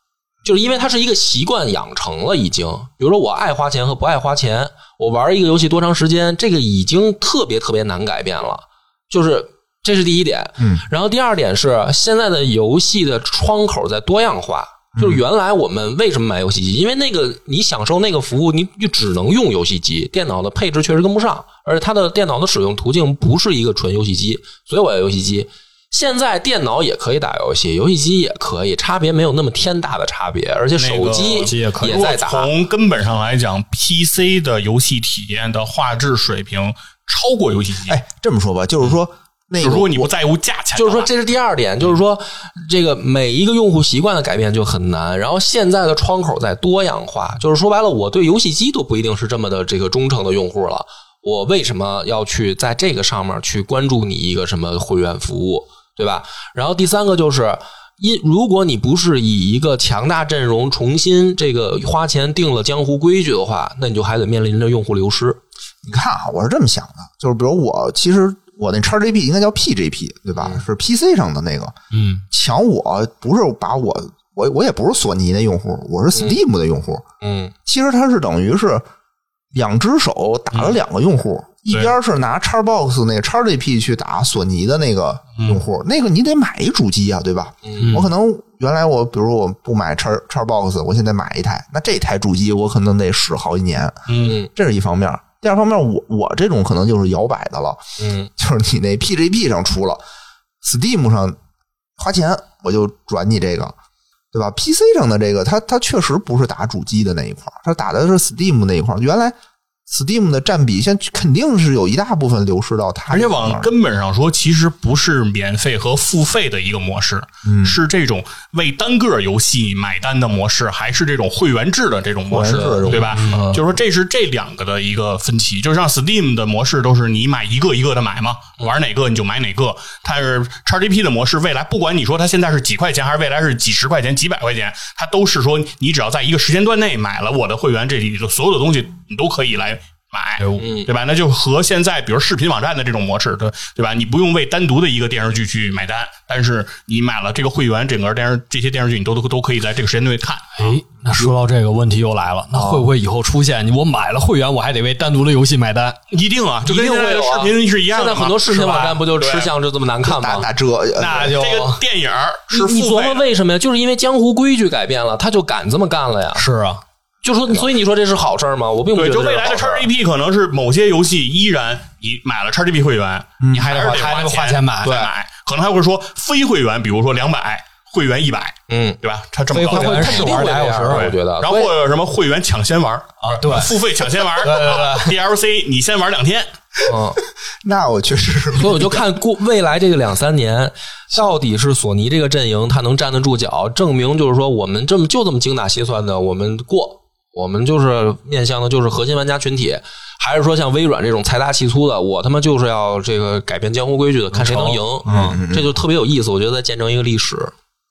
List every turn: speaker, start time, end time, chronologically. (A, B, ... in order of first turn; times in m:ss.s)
0:00.4-0:32.5 A
0:14.9-0:15.2 B
0:30.8-0:38.0 C
0:31.3-0:32.0 D
0:37.9-0:40.1 B
0:39.6-0:41.1 C
0:40.7-1:05.4 A
1:05.8-1:11.7 B
1:11.9-1:12.2 A
1:12.3-1:17.0 B
1:16.1-1:16.4 A
1:17.2-1:17.5 A
1:17.6-1:18.8 B
1:19.5-1:37.8 B
1:27.6-1:28.0 A
1:27.8-1:28.1 D
1:34.1-1:34.4 C
1:34.2-1:34.5 A
1:38.0-1:38.3 A
1:38.4-1:40.0 B
1:40.6-1:41.4 B
1:42.0-1:43.7 B
1:44.3-1:49.3 B
1:49.9-1:53.7 B
1:53.1-2:30.8 C
1:57.4-1:57.8 B
2:02.3-2:03.3 B
2:03.1-2:03.6 A
2:20.4-2:20.6 D
2:20.6-2:20.9 A
2:30.6-2:36.0 D
2:32.5-2:32.9 B
2:36.1-2:39.5 C
2:36.6-2:40.5 A
2:40.0-2:41.3 B
2:41.0-2:43.2 C
2:41.0-2:41.8 D
2:42.5-2:46.4 A
2:46.3-2:46.8 D
2:47.2-2:49.9 A
2:48.9-3:06.5 C
2:53.4-2:53.7 B
2:53.5-2:55.1 D
2:58.7-2:59.0 A
2:59.5-3:01.1 D
2:59.7-3:01.7 A
3:03.2-3:03.8 D
3:04.4-3:05.1 D
3:06.8-3:07.2 A
3:07.6-3:09.0 B
3:08.5-3:27.5 A
3:24.3-3:25.4 D
3:25.0-3:25.7 B